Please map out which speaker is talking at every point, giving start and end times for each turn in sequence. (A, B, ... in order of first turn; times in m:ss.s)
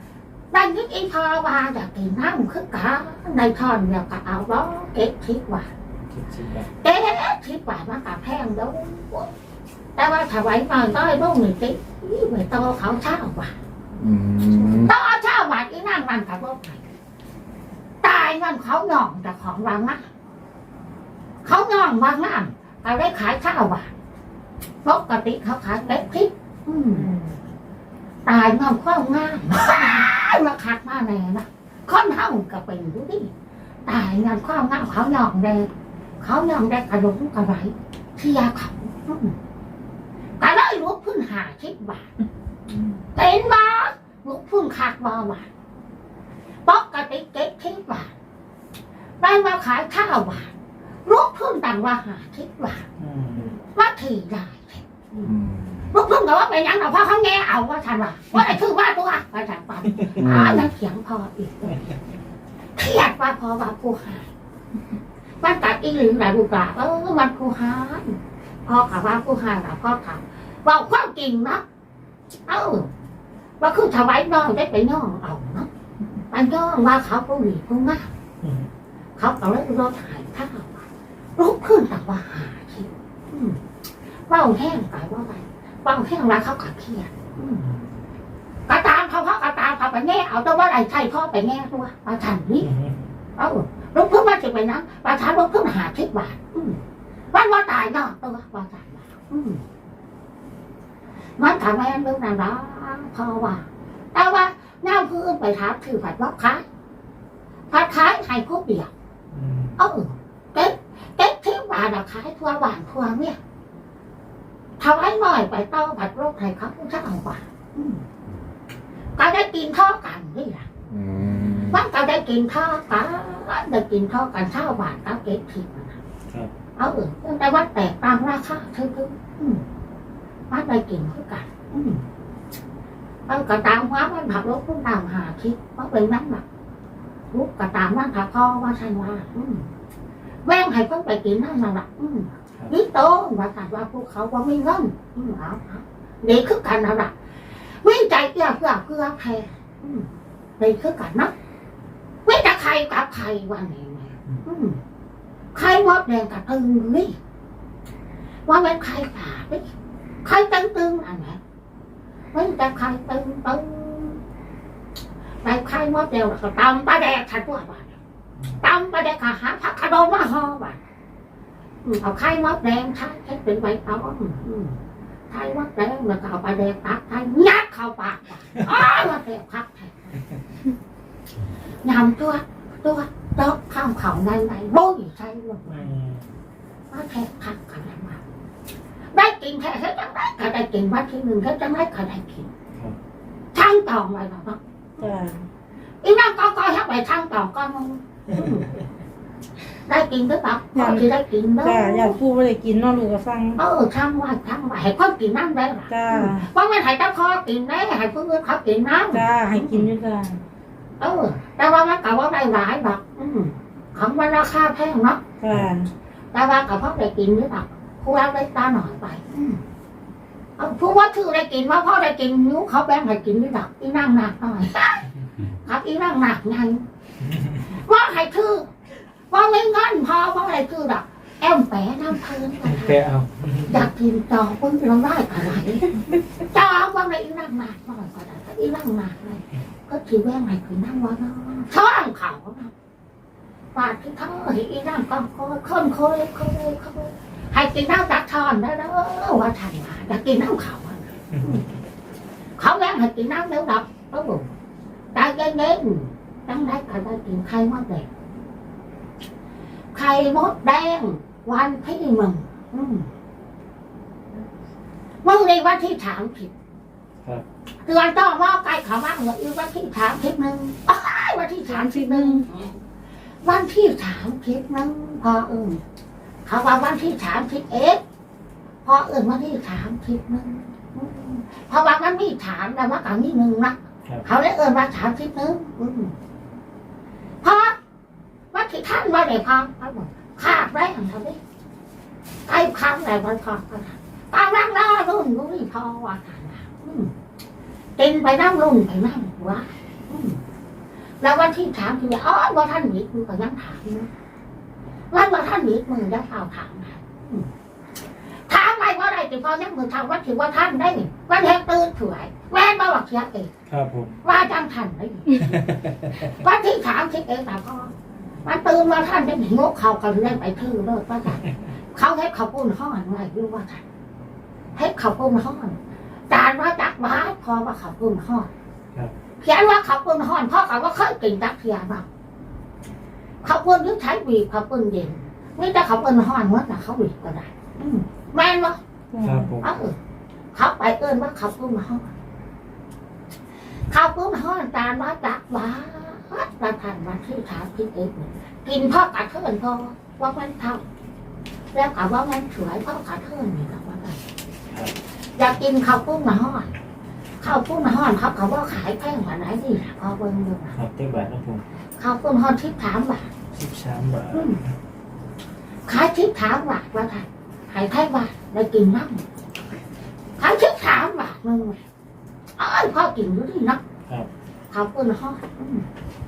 0:00.5-0:05.7 A
0:06.1-0:06.7 B
0:06.8-0:09.3 A
0:10.0-0:13.5 A
0:14.0-0:14.9 C
0:14.5-0:16.8 A
0:18.0-0:20.0 A
0:21.4-0:23.9 A
0:24.8-0:27.1 A
0:27.0-0:27.4 D
0:28.2-0:33.3 A
0:33.8-0:35.7 A
0:36.2-0:39.3 A
0:40.4-0:42.1 A
0:43.1-0:45.5 A
0:46.6-0:48.1 A
0:49.2-0:50.5 A
0:51.0-0:52.8 A
0:53.0-0:53.5 B
0:53.8-0:55.3 A
0:55.2-0:55.9 C
0:55.9-1:01.9 A
1:00.2-1:00.7 C
1:02.8-1:04.3 A
1:05.4-1:11.6 A
1:12.5-1:12.9 A
1:13.6-1:15.7 A
1:16.3-1:18.1 A
1:18.4-1:18.7 B
1:19.2-1:20.8 A
1:21.4-1:23.6 A
1:24.3-1:27.6 A
1:27.6-1:28.0 B
1:28.7-1:32.7 A
1:32.6-1:33.1 B
1:33.4-1:36.8 A
1:37.3-1:39.6 A
1:41.4-1:46.6 A
1:47.7-1:48.9 A
1:49.3-1:49.8 B
1:49.8-1:53.4 A
1:54.8-1:58.0 A
1:59.2-2:00.7 A
2:00.9-2:01.8 C
2:01.3-2:01.7 B
2:01.7-2:06.0 A
2:06.8-2:09.6 A
2:10.5-2:12.0 A
2:13.3-2:16.4 A
2:17.3-2:19.6 A
2:20.4-2:27.1 A
2:27.8-2:30.1 A
2:30.6-2:31.3 A
2:32.2-2:34.8 A
2:35.5-2:37.2 A
2:38.4-2:39.6 A
2:40.2-2:41.4 A
2:42.3-2:44.2 A
2:45.4-2:48.0 A
2:48.6-2:50.8 A
2:51.8-2:54.8 A
2:55.3-3:00.1 A
3:01.8-3:05.8 A
3:05.6-3:06.3 B
3:06.9-3:08.2 A
3:09.1-3:12.5 A
3:13.5-3:15.1 A
3:15.0-3:15.4 D
3:16.0-3:18.7 A
3:19.8-3:22.2 A
3:20.7-3:23.6 D
3:23.6-3:29.9 A
3:25.9-3:26.5 D
3:29.1-3:30.4 D
3:31.0-3:35.2 A
3:35.4-3:35.9 D
3:36.3-3:39.6 A
3:40.6-3:45.0 A
3:45.6-3:46.8 A
3:47.7-3:48.7 A
3:49.3-3:53.0 A
3:52.6-3:53.8 B
3:53.7-4:02.7 A
4:03.8-4:11.6 A
4:12.6-4:14.5 A
4:15.1-4:18.1 A
4:19.9-4:23.1 A
4:25.2-4:26.5 A
4:27.8-4:32.7 A
4:31.7-4:32.4 D
4:33.4-4:35.8 A
4:36.4-4:38.0 A
4:38.8-4:46.1 A
4:47.4-4:47.8 A
4:48.5-4:51.4 A
4:52.5-4:57.1 A
4:58.0-5:00.4 A
5:01.2-5:04.1 A
5:05.1-5:07.5 A
5:08.5-5:13.5 A
5:13.7-5:14.2 B
5:14.2-5:15.4 A
5:15.4-5:16.2 B
5:16.2-5:17.9 A
5:18.4-5:23.8 A
5:24.8-5:25.8 A
5:26.3-5:28.5 A
5:29.4-5:32.0 A
5:33.4-5:38.8 A
5:39.1-5:39.5 D
5:39.2-5:39.6 B
5:39.6-5:40.0 A
5:40.5-5:42.1 A
5:43.9-5:50.8 A
5:51.7-5:54.2 A
5:55.4-5:56.7 A
5:57.4-6:00.8 A
6:00.8-6:01.6 B
6:02.0-6:03.3 A
6:03.5-6:04.5 B
6:04.3-6:04.6 A
6:05.9-6:09.2 A
6:10.4-6:11.8 A
6:12.6-6:13.8 A
6:14.7-6:15.8 A